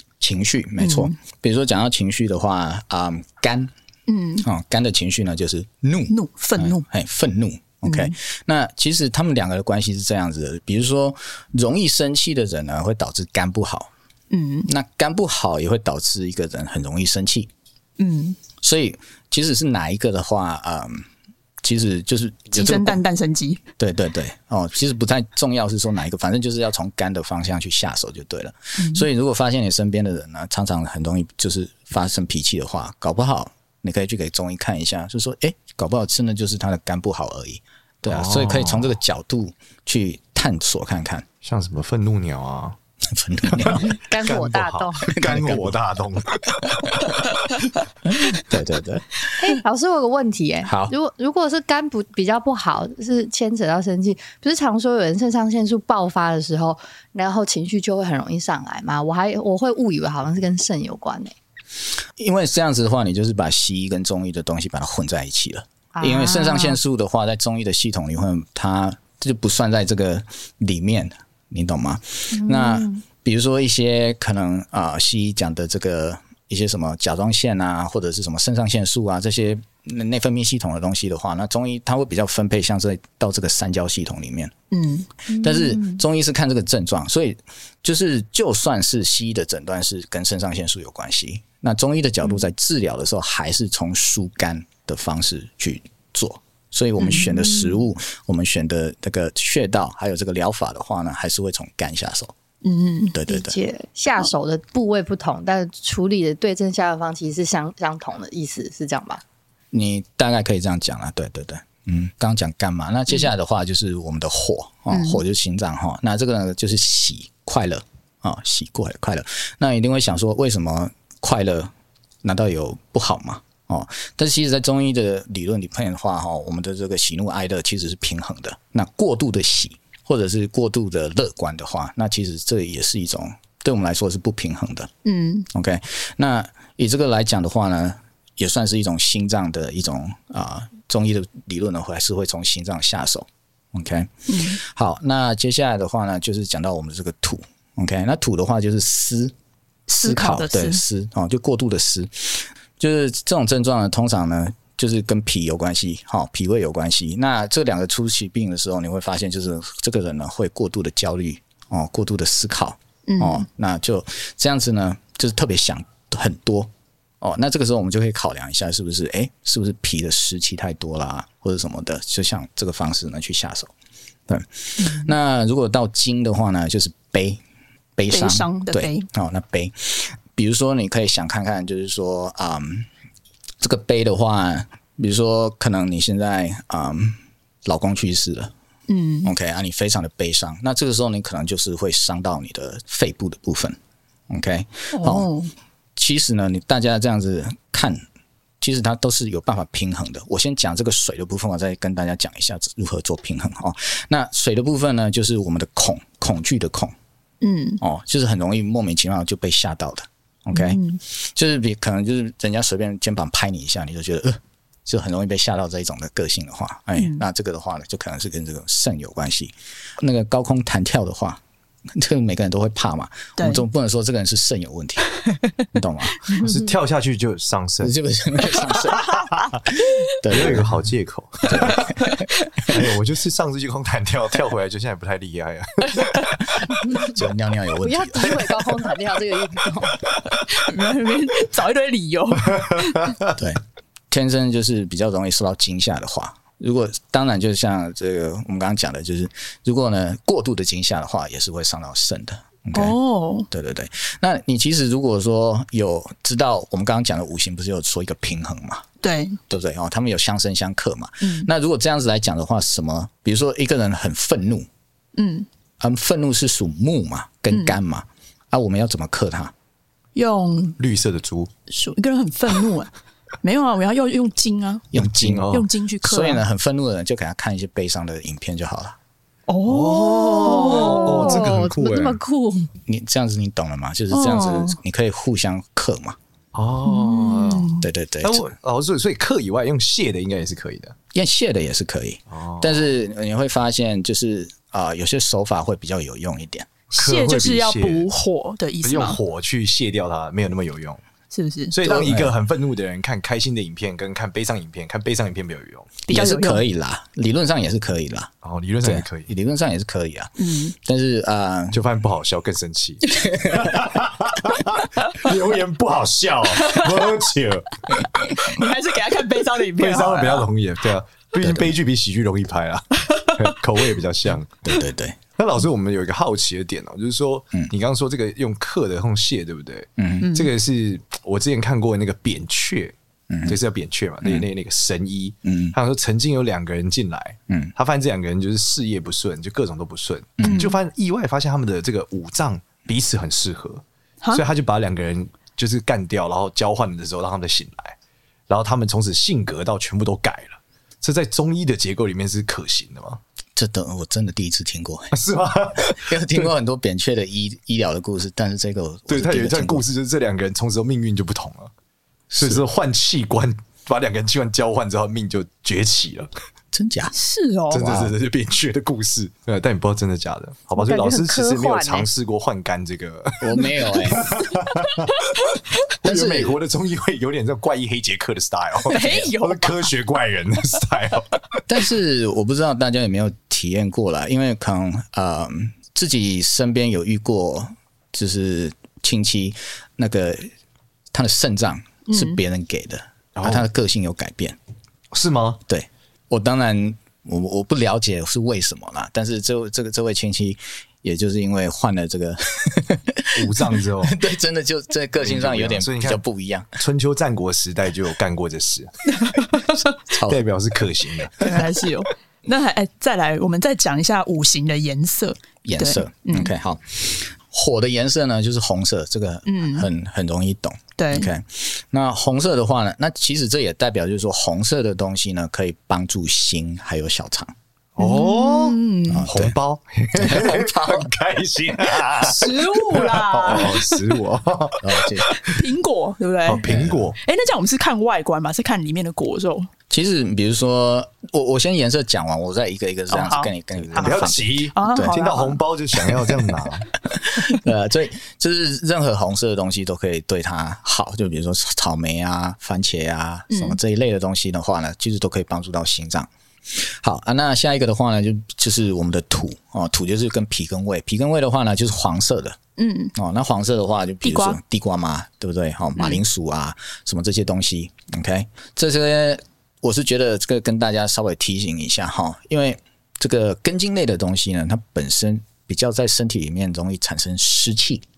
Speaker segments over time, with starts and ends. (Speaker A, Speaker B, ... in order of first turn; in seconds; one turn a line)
Speaker A: 0.2-3.7
Speaker B: 0.8-1.1
Speaker B: 4.1-4.5
Speaker A: 4.4-13.9
Speaker B: 6.1-6.8
Speaker B: 7.8-8.1
Speaker B: 14.3-14.7
Speaker A: 14.7-17.5
Speaker B: 18.0-18.4
Speaker A: 18.6-21.1
Speaker A: 21.6-23.0
Speaker B: 22.5-23.6
Speaker A: 23.8-41.2
Speaker B: 28.8-29.1
Speaker C: 38.0-39.0
Speaker C: 41.4-42.8
Speaker A: 43.0-43.9
Speaker C: 43.5-47.2
Speaker D: 43.8-45.2
Speaker A: 45.1-45.8
Speaker A: 48.0-49.3
Speaker D: 49.4-61.3
Speaker A: 50.6-50.9
Speaker A: 62.2-84.5
Speaker D: 66.0-66.8
Speaker D: 72.3-73.0
Speaker B: 84.7-85.1
Speaker D: 85.3-86.0
Speaker A: 85.4-102.3
Speaker B: 97.0-97.3
Speaker D: 97.1-97.7
Speaker B: 102.6-103.2
Speaker A: 103.1-103.6
Speaker D: 103.3-109.2
Speaker A: 109.7-121.7
Speaker B: 114.9-115.2
Speaker A: 122.2-134.9
Speaker B: 135.0-135.5
Speaker A: 135.5-149.3
Speaker B: 144.3-144.6
Speaker B: 149.9-150.8
Speaker A: 150.0-173.7
Speaker B: 163.1-163.4
Speaker A: 174.3-177.4
Speaker B: 174.8-175.1
Speaker A: 177.9-182.9
Speaker B: 178.1-179.1
Speaker A: 183.6-188.5
Speaker B: 188.9-189.3
Speaker A: 189.2-193.8
Speaker A: 194.3-195.3
Speaker B: 194.9-195.5
Speaker A: 195.9-198.0
Speaker A: 198.6-206.9
Speaker B: 207.4-207.8
Speaker A: 207.8-221.4
Speaker B: 210.5-211.0
Speaker B: 216.9-217.2
Speaker A: 221.9-225.1
Speaker B: 223.4-223.6
Speaker A: 225.7-226.2
Speaker C: 226.3-227.9
Speaker A: 227.8-230.7
Speaker C: 230.3-232.0
Speaker A: 231.4-232.7
Speaker B: 232.0-232.4
Speaker C: 232.6-236.6
Speaker B: 235.9-236.2
Speaker A: 236.9-238.5
Speaker D: 237.8-240.1
Speaker B: 240.4-243.1
Speaker C: 242.6-243.3
Speaker A: 243.3-253.0
Speaker B: 252.7-253.5
Speaker A: 253.5-258.9
Speaker B: 259.0-259.4
Speaker A: 259.5-264.7
Speaker B: 261.2-261.5
Speaker B: 265.1-265.5
Speaker A: 265.8-269.5
Speaker B: 267.5-267.8
Speaker B: 270.1-270.8
Speaker C: 270.8-271.5
Speaker B: 271.7-272.9
Speaker B: 273.4-274.9
Speaker A: 274.9-279.0
Speaker C: 274.9-275.7
Speaker B: 275.5-276.4
Speaker B: 279.5-281.4
Speaker C: 279.6-282.2
Speaker D: 280.4-282.7
Speaker A: 282.9-286.2
Speaker B: 284.1-284.8
Speaker C: 286.5-290.9
Speaker B: 286.9-287.9
Speaker A: 287.8-288.5
Speaker A: 291.1-296.7
Speaker C: 292.3-292.9
Speaker B: 296.9-299.2
Speaker C: 296.9-298.1
Speaker C: 298.8-301.0
Speaker B: 301.3-301.7
Speaker C: 301.7-306.0
Speaker A: 301.8-302.3
Speaker B: 306.1-306.6
Speaker A: 306.1-308.3
Speaker C: 308.4-309.3
Speaker A: 308.8-311.8
Speaker B: 310.4-310.7
Speaker C: 311.7-318.1
Speaker A: 313.1-313.8
Speaker B: 318.3-320.5
Speaker C: 319.8-324.6
Speaker A: 321.4-321.7
Speaker B: 323.1-323.4
Speaker A: 324.6-325.2
Speaker C: 325.4-332.9
Speaker A: 330.0-330.3
Speaker B: 330.2-330.5
Speaker A: 333.3-333.6
Speaker C: 333.4-347.9
Speaker A: 335.4-335.8
Speaker A: 340.4-340.7
Speaker B: 340.4-340.8
Speaker C: 348.5-353.2
Speaker A: 353.6-355.1
Speaker C: 355.1-356.5
Speaker A: 355.8-359.8
Speaker C: 359.1-361.7
Speaker A: 362.3-362.6
Speaker C: 362.4-366.3
Speaker A: 366.7-367.1
Speaker B: 367.1-367.9
Speaker C: 367.7-381.6
Speaker A: 367.7-368.1
Speaker D: 370.8-372.1
Speaker A: 373.4-374.3
Speaker A: 376.0-376.5
Speaker B: 378.9-379.9
Speaker A: 381.7-390.5
Speaker A: 391.1-394.6
Speaker B: 392.1-392.4
Speaker C: 393.4-393.7
Speaker C: 395.1-395.6
Speaker A: 395.7-406.8
Speaker C: 403.3-404.2
Speaker C: 405.2-406.2
Speaker C: 406.8-408.9
Speaker B: 409.2-409.8
Speaker A: 410.1-410.4
Speaker C: 410.2-411.6
Speaker B: 411.4-416.5
Speaker A: 415.6-427.5
Speaker B: 419.4-419.9
Speaker B: 421.0-421.3
Speaker C: 427.9-435.5
Speaker B: 428.0-429.3
Speaker A: 429.1-429.5
Speaker A: 430.1-431.1
Speaker B: 432.2-434.0
Speaker A: 434.8-435.3
Speaker B: 435.3-436.7
Speaker C: 436.4-437.2
Speaker A: 436.6-437.1
Speaker B: 437.2-439.7
Speaker A: 439.9-445.1
Speaker B: 443.1-443.5
Speaker C: 443.8-446.9
Speaker B: 444.7-445.6
Speaker A: 447.0-462.6
Speaker B: 453.5-453.8
Speaker B: 462.8-463.1
Speaker A: 463.1-478.0
Speaker B: 464.2-464.6